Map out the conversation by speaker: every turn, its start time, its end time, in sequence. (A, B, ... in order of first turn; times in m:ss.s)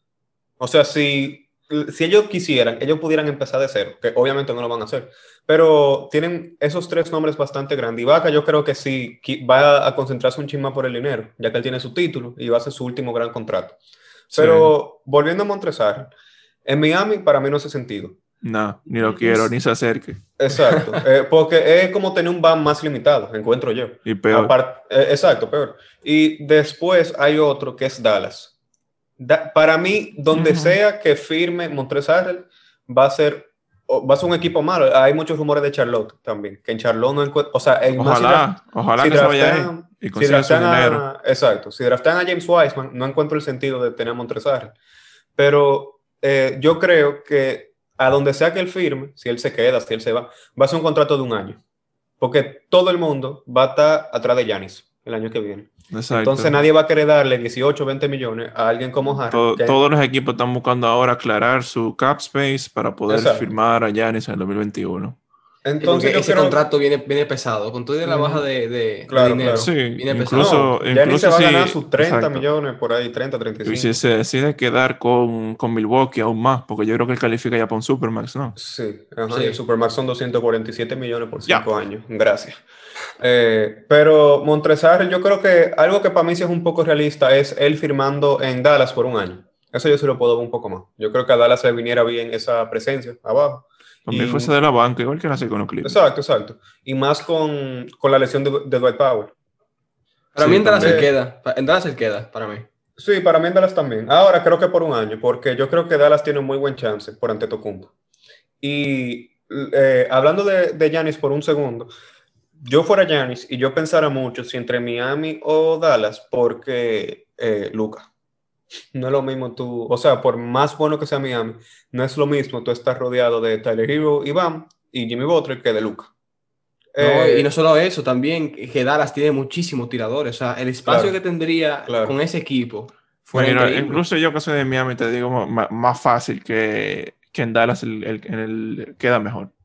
0:00.6-0:13.8 A
0:14.3-0:16.1 A
0:14.3-0:14.7 B
0:16.6-0:18.2 A
0:18.4-0:20.2 B
0:20.4-0:28.5 A
0:24.0-0:24.5 B
0:29.2-0:44.8 A
0:30.3-0:30.8 B
0:37.9-0:41.0 B
0:45.4-0:51.6 A
0:52.2-0:59.8 A
0:55.9-0:56.6 B
0:59.3-1:05.2 B
1:03.1-1:03.5 A
1:05.6-1:06.6 A
1:05.8-1:10.6 C
1:08.0-1:08.4 A
1:09.1-1:09.7 A
1:09.5-1:12.5 B
1:10.3-1:13.9 A
1:13.6-1:18.6 B
1:18.6-1:22.6 A
1:19.3-1:19.6 C
1:23.2-1:34.5 A
1:34.1-1:36.0 B
1:35.8-1:39.3 A
1:40.3-1:42.7 C
1:40.4-1:41.1 B
1:40.8-1:41.1 A
1:43.0-1:47.9 A
1:48.6-1:51.9 A
1:52.6-1:58.1 A
1:58.9-2:06.1 A
2:06.9-2:07.5 A
2:07.0-2:14.0 C
2:10.8-2:11.2 A
2:11.9-2:12.1 A
2:13.3-2:19.5 B